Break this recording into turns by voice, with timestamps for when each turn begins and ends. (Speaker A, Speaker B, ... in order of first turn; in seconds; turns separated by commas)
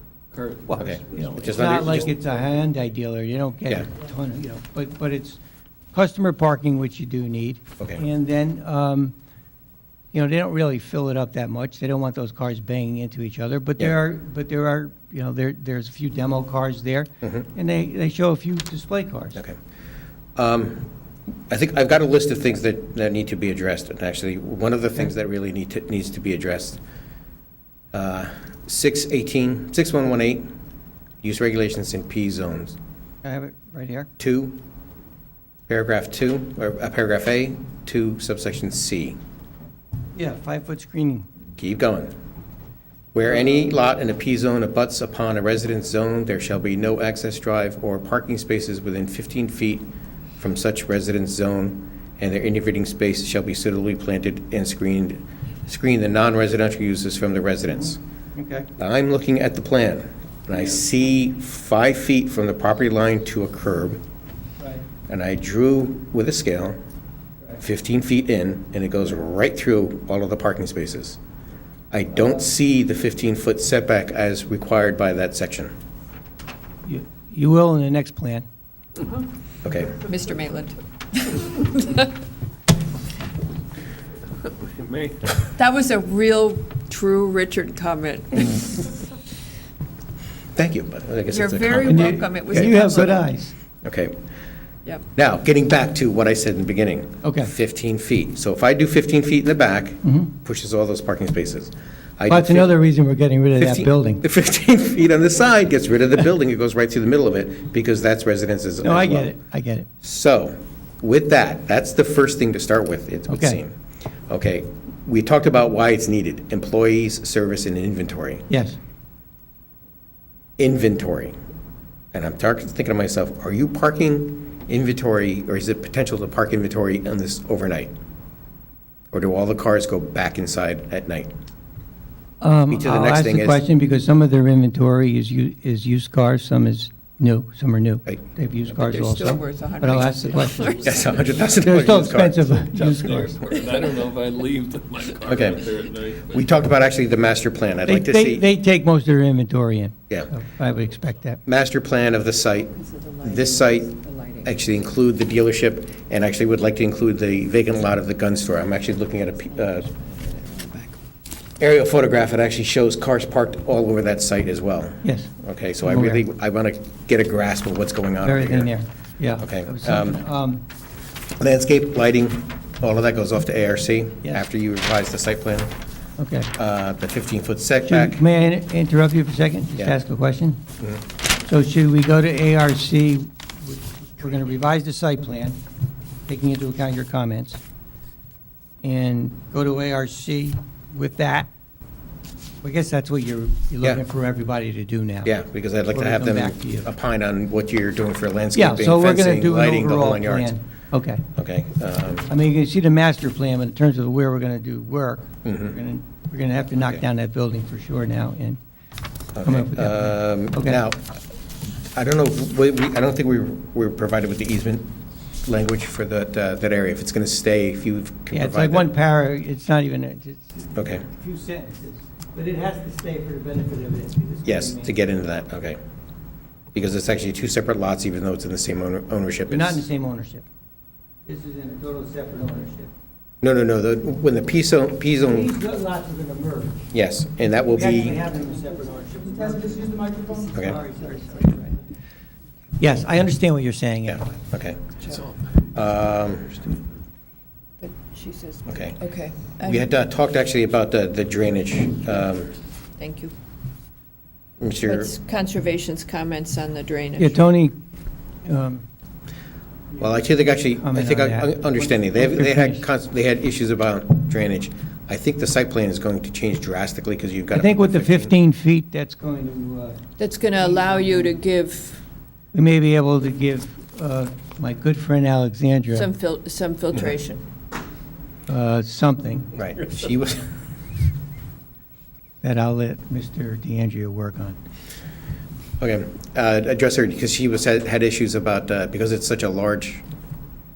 Speaker A: 0.3-1.4, Speaker B: 0.7-5.4, Speaker C: 0.8-2.1, Speaker B: 5.9-9.1, Speaker B: 10.1-19.4, Speaker C: 20.4-20.9, Speaker C: 21.5-26.8, Speaker C: 27.9-30.5, Speaker C: 31.2-32.8, Speaker B: 33.2-34.1, Speaker C: 34.2-34.6, Speaker C: 35.7-39.1, Speaker B: 40.1-41.3, Speaker C: 41.6-42.1, Speaker C: 43.1-49.9, Speaker C: 50.4-58.0, Speaker B: 58.4-58.7, Speaker C: 58.8-64.0, Speaker C: 65.1-66.8, Speaker C: 67.6-71.2, Speaker C: 71.9-75.7, Speaker B: 76.8-78.5, Speaker C: 79.6-80.0, Speaker D: 80.0-82.1, Speaker A: 84.6-85.3, Speaker D: 85.5-89.0, Speaker C: 90.5-93.2, Speaker D: 91.3-93.2, Speaker B: 91.9-93.5, Speaker C: 93.8-94.1, Speaker C: 95.1-102.8, Speaker B: 97.2-97.5, Speaker B: 100.0-100.3, Speaker B: 102.3-104.2, Speaker C: 103.6-109.3, Speaker B: 108.8-109.9, Speaker C: 110.0-113.8, Speaker B: 113.3-113.6, Speaker C: 114.3-118.5, Speaker B: 118.5-118.8, Speaker C: 120.6-121.3, Speaker C: 122.1-127.9, Speaker C: 129.1-131.3, Speaker B: 132.4-140.9, Speaker C: 132.7-133.6, Speaker D: 138.7-141.2, Speaker C: 140.8-142.6, Speaker B: 141.6-143.3, Speaker A: 142.7-146.6, Speaker C: 145.2-145.7, Speaker C: 146.3-148.4, Speaker B: 147.8-151.4, Speaker C: 151.4-153.9, Speaker D: 152.7-154.6, Speaker C: 154.4-159.9, Speaker D: 159.6-160.9, Speaker C: 161.6-168.7, Speaker B: 165.0-166.2, Speaker B: 168.2-170.6, Speaker C: 169.4-170.2, Speaker C: 171.4-175.7, Speaker B: 176.2-176.5, Speaker C: 176.5-178.2, Speaker B: 177.9-180.6, Speaker B: 181.4-185.6, Speaker B: 186.3-187.6, Speaker B: 188.8-191.5, Speaker B: 192.6-195.3, Speaker C: 195.2-200.5, Speaker B: 195.9-196.9, Speaker B: 198.5-201.2, Speaker C: 201.3-202.3, Speaker B: 202.3-208.6, Speaker C: 205.4-205.8, Speaker C: 209.3-211.2, Speaker B: 209.4-210.8, Speaker C: 211.9-218.9, Speaker B: 218.3-224.9, Speaker C: 220.7-221.0, Speaker C: 224.4-225.8, Speaker C: 226.7-229.8, Speaker B: 229.5-230.4, Speaker B: 231.2-232.9, Speaker C: 233.4-235.5, Speaker B: 235.2-236.9, Speaker C: 236.9-238.2, Speaker B: 237.7-241.7, Speaker C: 240.5-240.8, Speaker B: 242.8-244.3, Speaker C: 244.1-244.8, Speaker D: 245.0-245.3, Speaker C: 245.7-246.7, Speaker D: 247.8-249.9, Speaker C: 248.7-249.0, Speaker C: 249.6-252.5, Speaker D: 253.0-253.3, Speaker C: 254.6-255.1, Speaker D: 254.8-257.4, Speaker B: 257.2-257.8, Speaker B: 258.4-258.9, Speaker C: 260.0-268.3, Speaker B: 260.5-262.8, Speaker B: 267.5-270.0, Speaker D: 270.2-272.0, Speaker B: 270.6-271.3, Speaker B: 272.5-276.1, Speaker D: 275.9-277.4, Speaker B: 278.5-279.5, Speaker C: 279.5-280.4, Speaker B: 282.4-284.6, Speaker C: 285.8-290.0